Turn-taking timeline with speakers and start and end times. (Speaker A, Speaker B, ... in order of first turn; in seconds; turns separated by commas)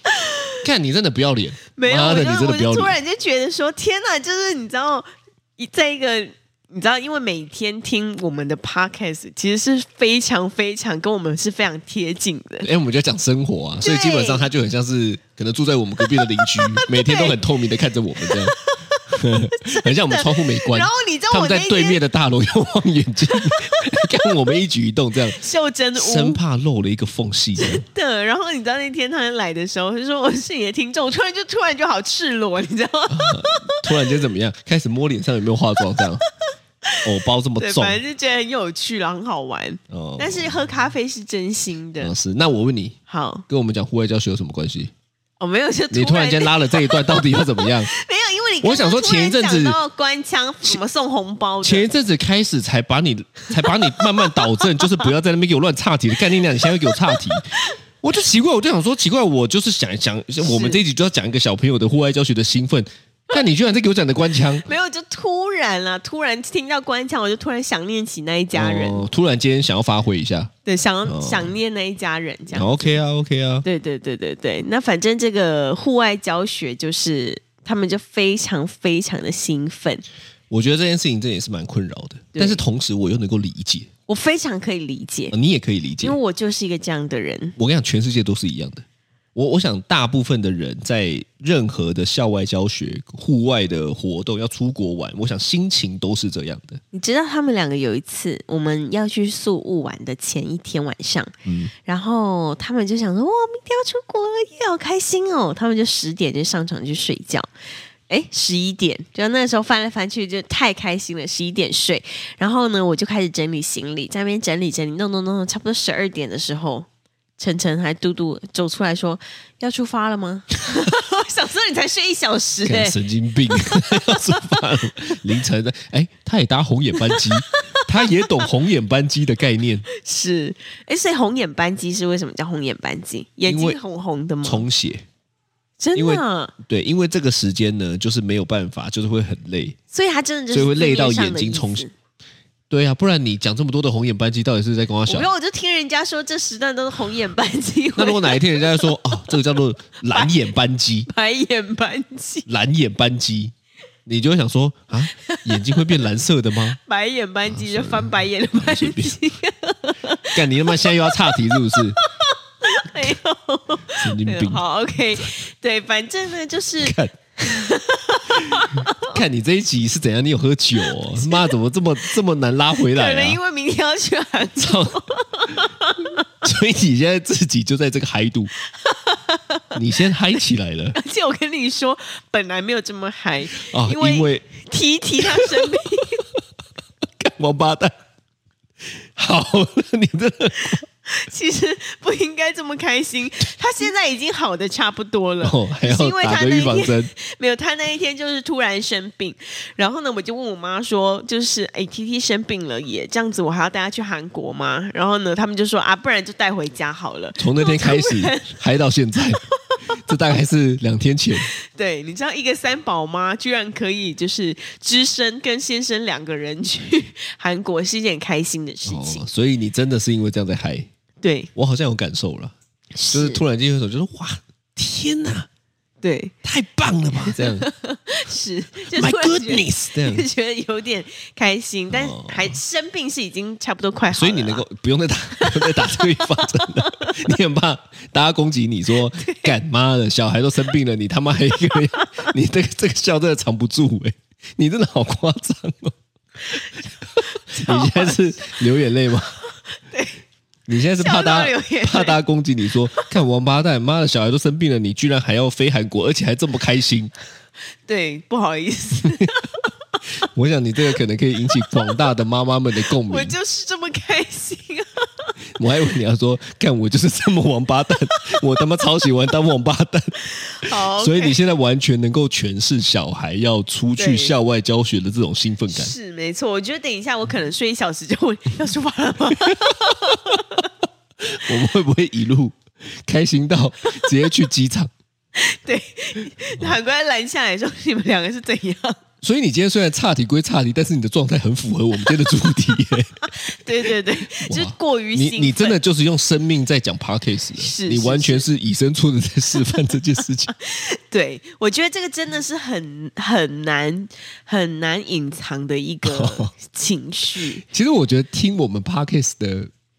Speaker A: 0.2-0.6, Speaker B: 0.6-3.0, Speaker A: 1.8-12.7, Speaker B: 12.6-18.6, Speaker A: 13.8-14.5, Speaker A: 16.0-17.4, Speaker A: 18.2-22.0, Speaker B: 19.1-25.4, Speaker A: 23.3-24.3, Speaker A: 25.4-26.4, Speaker B: 26.0-27.8, Speaker A: 27.6-33.8, Speaker B: 33.1-36.2, Speaker B: 37.0-38.0, Speaker A: 37.6-42.1, Speaker B: 39.9-40.5, Speaker B: 42.0-43.0, Speaker A: 43.1-43.5, Speaker B: 43.5-44.9, Speaker A: 45.4-51.9, Speaker B: 45.9-47.9, Speaker B: 48.6-49.8, Speaker B: 51.6-64.7, Speaker A: 53.6-55.1, Speaker A: 56.6-57.8, Speaker A: 60.4-60.8, Speaker A: 64.6-69.1, Speaker B: 68.5-70.5, Speaker A: 70.7-73.0, Speaker B: 71.1-71.5, Speaker B: 72.5-73.7, Speaker A: 73.6-80.0, Speaker B: 80.5-83.9, Speaker A: 82.3-82.6, Speaker A: 84.1-85.3, Speaker B: 85.3-86.2, Speaker A: 86.0-87.5, Speaker B: 87.6-96.8, Speaker A: 96.9-101.3, Speaker B: 101.5-101.7, Speaker A: 101.8-107.5, Speaker A: 108.1-116.9, Speaker A: 117.4-123.0, Speaker B: 122.7-129.9, Speaker A: 123.5-124.6, Speaker A: 127.0-128.5, Speaker A: 129.9-134.7, Speaker B: 133.5-133.8, Speaker B: 134.4-135.1, Speaker A: 135.8-136.5, Speaker B: 135.9-139.8, Speaker A: 139.9-141.9, Speaker B: 140.5-141.9, Speaker B: 142.7-145.3, Speaker A: 145.1-149.3, Speaker B: 148.0-151.1, Speaker A: 151.1-152.5, Speaker B: 152.5-153.5, Speaker B: 154.1-156.8, Speaker A: 155.3-155.9, Speaker A: 156.7-169.2, Speaker B: 157.5-159.2, Speaker B: 160.3-162.0, Speaker B: 163.9-164.7, Speaker B: 166.8-167.2, Speaker B: 168.4-173.4, Speaker A: 170.9-171.6, Speaker A: 172.9-176.3, Speaker B: 174.6-175.0, Speaker B: 176.3-178.5, Speaker A: 178.8-179.8, Speaker B: 179.7-181.0, Speaker A: 180.9-186.2, Speaker B: 183.7-184.4, Speaker B: 185.2-185.8, Speaker B: 187.2-187.9, Speaker B: 189.2-190.8, Speaker A: 190.6-208.6, Speaker B: 195.4-197.1, Speaker B: 207.4-209.4, Speaker A: 209.7-210.0, Speaker B: 210.0-211.5, Speaker A: 211.4-219.2, Speaker B: 218.9-220.9, Speaker A: 221.2-221.5, Speaker B: 221.6-222.5, Speaker A: 222.9-223.4, Speaker B: 223.1-225.5, Speaker A: 226.0-226.3, Speaker B: 226.4-227.7, Speaker A: 227.2-234.6, Speaker B: 228.9-230.3, Speaker B: 231.9-232.6, Speaker B: 234.1-245.9, Speaker A: 235.3-237.3, Speaker A: 239.1-239.5, Speaker A: 242.0-242.3, Speaker B: 247.2-249.4, Speaker A: 247.2-248.6, Speaker A: 249.9-250.2, Speaker B: 250.7-257.1, Speaker A: 251.0-252.2, Speaker A: 257.9-259.6, Speaker B: 260.2-263.3, Speaker A: 261.7-261.9, Speaker A: 263.0-265.3, Speaker B: 265.6-275.9, Speaker A: 270.4-271.4, Speaker A: 274.0-274.4, Speaker A: 275.7-280.7, Speaker B: 279.5-280.1, Speaker B: 281.2-284.9, Speaker A: 285.4-289.0, Speaker B: 289.2-293.3, Speaker A: 293.2-295.8, Speaker B: 293.8-300.5, Speaker A: 297.6-298.4, Speaker A: 300.6-307.6, Speaker B: 306.0-306.5, Speaker B: 307.4-309.7